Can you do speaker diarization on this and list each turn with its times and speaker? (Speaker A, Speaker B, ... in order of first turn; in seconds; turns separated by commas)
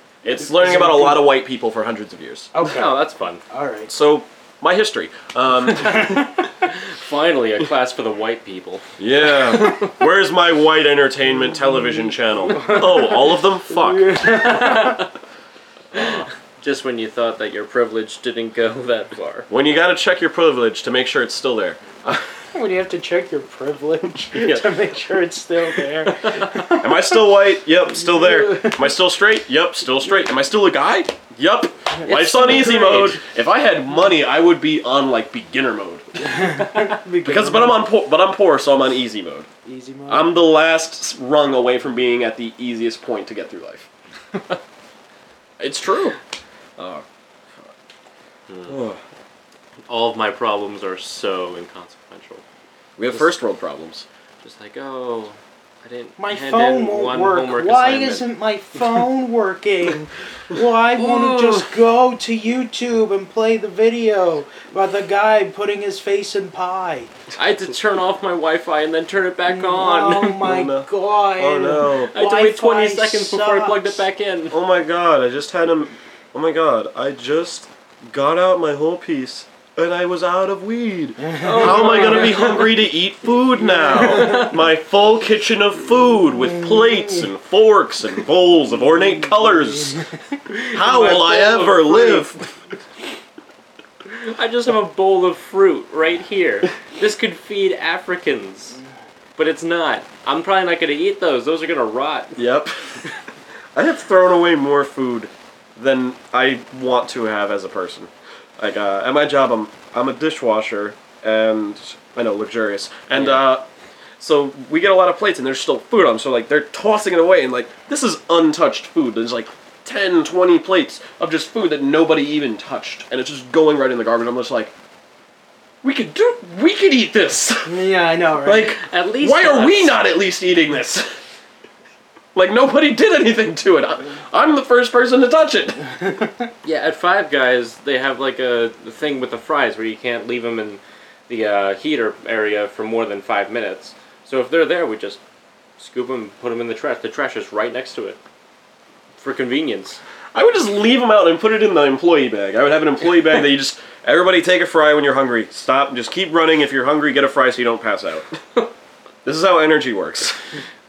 Speaker A: 0.2-2.5, Speaker B: 0.4-1.3, Speaker B: 2.5-3.9, Speaker C: 2.6-3.4, Speaker A: 3.9-6.5, Speaker B: 5.8-6.3, Speaker C: 6.7-9.9, Speaker A: 9.0-14.2, Speaker B: 12.5-15.1, Speaker C: 14.2-15.1, Speaker A: 15.9-16.2, Speaker C: 15.9-19.5, Speaker A: 19.5-22.3, Speaker B: 22.5-27.3, Speaker A: 24.3-24.7, Speaker A: 26.8-36.5, Speaker B: 27.9-28.9, Speaker B: 31.9-33.1, Speaker C: 32.6-33.2, Speaker B: 36.2-37.8, Speaker A: 37.2-39.5, Speaker B: 39.6-40.3, Speaker A: 40.1-43.9, Speaker A: 45.6-46.2, Speaker A: 46.8-47.0, Speaker C: 48.5-48.7, Speaker A: 48.6-49.0, Speaker C: 49.9-52.4, Speaker A: 53.0-54.0, Speaker C: 54.4-58.2, Speaker B: 56.2-67.1, Speaker C: 61.0-61.6, Speaker C: 67.3-70.5, Speaker B: 69.5-74.0, Speaker A: 70.4-72.1, Speaker C: 71.9-74.6, Speaker A: 74.5-90.0, Speaker B: 81.2-82.0, Speaker C: 81.4-82.8, Speaker B: 83.8-84.4, Speaker C: 84.1-84.5, Speaker C: 90.5-92.3, Speaker A: 90.7-92.5, Speaker C: 94.0-98.8, Speaker C: 99.3-102.4, Speaker A: 102.3-103.0, Speaker A: 103.7-113.6, Speaker C: 113.1-113.5, Speaker A: 114.2-124.7, Speaker A: 125.8-127.8, Speaker B: 127.7-128.7, Speaker A: 128.4-131.1, Speaker C: 128.6-130.0, Speaker A: 132.3-135.8, Speaker C: 136.6-145.2, Speaker C: 145.8-148.2, Speaker C: 149.2-150.0, Speaker A: 150.3-158.2, Speaker A: 159.2-160.3